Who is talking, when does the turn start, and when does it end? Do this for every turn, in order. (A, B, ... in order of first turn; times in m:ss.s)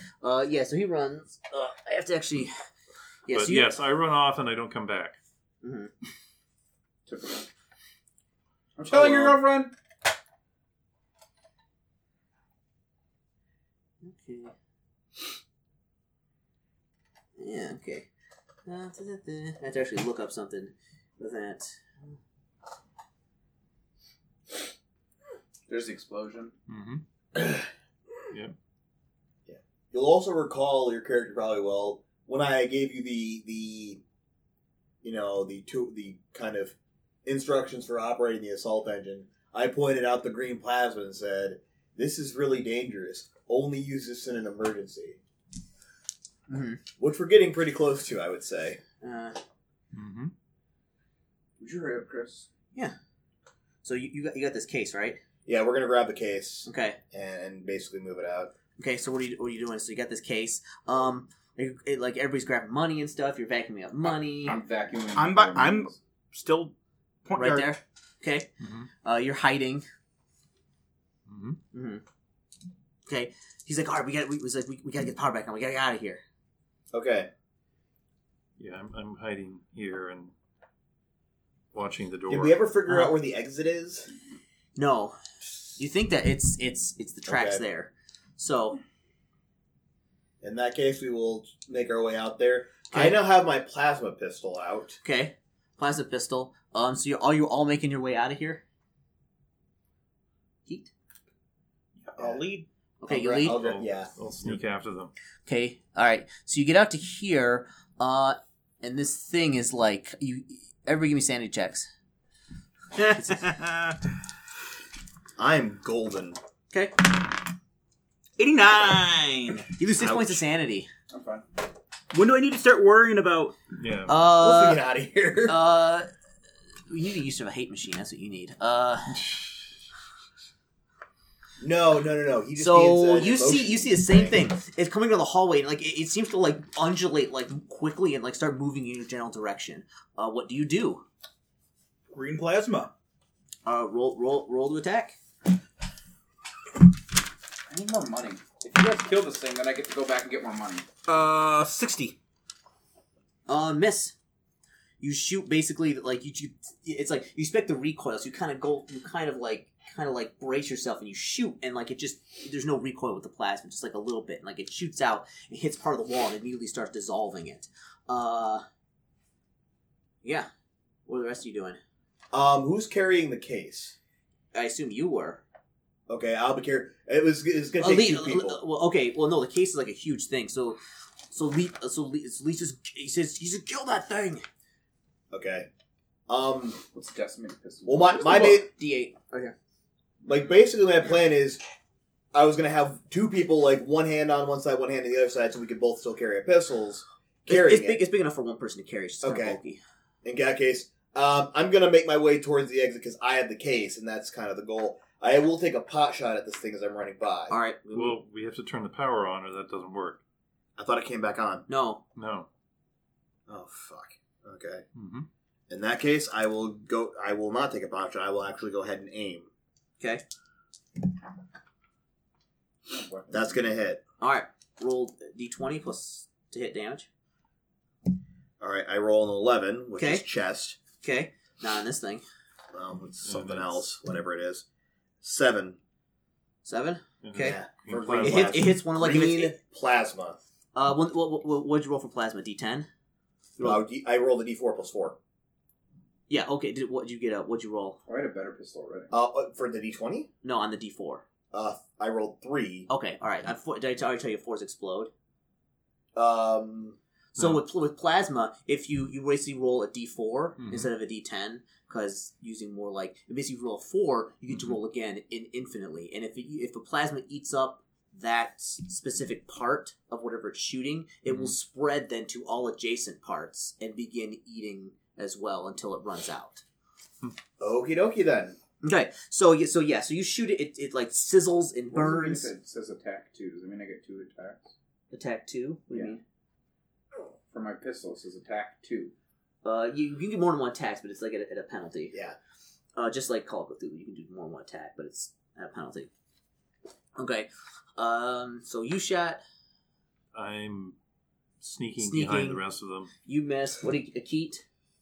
0:00.2-0:02.5 A
0:03.2-0:03.8 A
0:03.3-0:05.2 B
0:05.6-0:05.9 A
0:07.1-0:07.5 C
0:08.8-0:09.7 C
0:08.9-0:09.4 D
0:14.0-0:14.5 A
0:17.4-0:18.1 A
0:18.6-0:22.2 A
0:25.7-0:26.5 C
0:26.7-0:27.0 B
0:27.4-0:27.6 D
0:29.5-0:34.0 D
0:35.0-0:45.2 D
0:46.5-0:46.8 A
0:47.0-0:48.8 D
0:49.0-0:49.4 A
0:49.9-0:50.3 B
0:51.6-0:52.5 C
0:53.8-0:55.2 A
0:55.4-0:58.5 D
0:56.7-0:57.0 A
0:58.8-1:04.6 A
1:04.4-1:06.0 C
1:05.1-1:06.7 E
1:07.2-1:07.7 E
1:07.4-1:08.5 A
1:08.6-1:08.9 B
1:09.0-1:09.9 A
1:11.3-1:11.6 B
1:11.7-1:12.0 A
1:13.1-1:16.2 A
1:16.9-1:17.3 D
1:18.6-1:20.3 B
1:21.7-1:22.6 B
1:22.3-1:24.1 D
1:22.9-1:23.1 A
1:24.8-1:25.2 A
1:25.8-1:28.8 A
1:27.3-1:27.6 D
1:30.4-1:35.0 D
1:32.9-1:33.2 A
1:35.0-1:38.6 A
1:40.7-1:40.9 A
1:42.0-1:42.6 E
1:42.2-1:42.4 D
1:43.0-1:43.6 A
1:43.0-1:44.1 D
1:43.4-1:45.1 B
1:45.4-1:51.9 A
1:53.0-1:54.0 E
1:53.1-1:53.5 A
1:55.4-1:56.4 D
1:58.4-1:59.7 E
1:59.8-2:00.9 A
2:00.0-2:00.4 D
2:01.1-2:01.4 C
2:02.1-2:03.6 E
2:03.8-2:04.1 B
2:04.1-2:04.8 A
2:04.3-2:05.6 D
2:05.4-2:06.1 A
2:06.9-2:09.2 A
2:11.6-2:14.4 D
2:12.6-2:21.0 A
2:22.1-2:22.9 E
2:23.6-2:25.2 A
2:27.7-2:30.9 C
2:31.1-2:32.2 E
2:33.5-2:34.1 A
2:35.0-2:48.6 A
2:51.1-2:51.8 A
2:52.3-2:53.9 D
2:54.5-2:55.4 A
2:56.1-2:58.6 D
2:57.8-3:00.8 A
3:01.3-3:04.4 A
3:05.3-3:05.7 D
3:06.3-3:06.8 D
3:06.9-3:08.2 C
3:07.8-3:08.7 D
3:08.1-3:09.5 A
3:10.2-3:11.6 D
3:12.3-3:18.0 D
3:17.5-3:19.8 A
3:19.2-3:19.6 D
3:20.2-3:27.6 D
3:27.5-3:28.2 A
3:27.9-3:30.2 B
3:30.8-3:31.6 D
3:31.7-3:32.0 A
3:32.2-3:32.5 B
3:33.5-3:34.8 D
3:34.9-3:35.3 B
3:35.7-3:39.5 D
3:42.9-3:43.7 C
3:43.3-3:44.0 D
3:44.2-3:47.1 A
3:48.6-3:50.8 D
3:50.0-3:50.2 A
3:51.0-3:52.2 A
3:52.7-3:54.6 D
3:53.2-3:53.8 B
3:55.2-3:55.8 D
3:56.6-3:57.6 A
3:57.2-3:58.7 B
3:57.4-4:00.4 D
3:58.1-3:59.6 A
4:00.8-4:02.9 A
4:03.6-4:03.8 A
4:03.6-4:05.2 D
4:06.3-4:08.0 A
4:08.0-4:09.1 C
4:09.1-4:10.3 D
4:10.4-4:11.2 A
4:11.5-4:12.9 D
4:12.9-4:15.1 A
4:16.1-4:17.0 D
4:17.4-4:36.6 A
4:20.6-4:20.9 B
4:24.5-4:24.8 B
4:31.3-4:31.5 B
4:37.6-4:38.6 D
4:38.8-4:42.5 A
4:41.9-4:44.7 C
4:45.1-4:46.2 A
4:45.9-4:46.2 C
4:47.5-4:49.1 C
4:49.6-4:52.1 A
4:52.1-4:52.4 D
4:52.9-4:56.1 A
4:57.2-4:59.4 A
5:00.3-5:01.0 B
5:01.6-5:03.1 B
5:02.0-5:02.6 A
5:03.2-5:04.6 A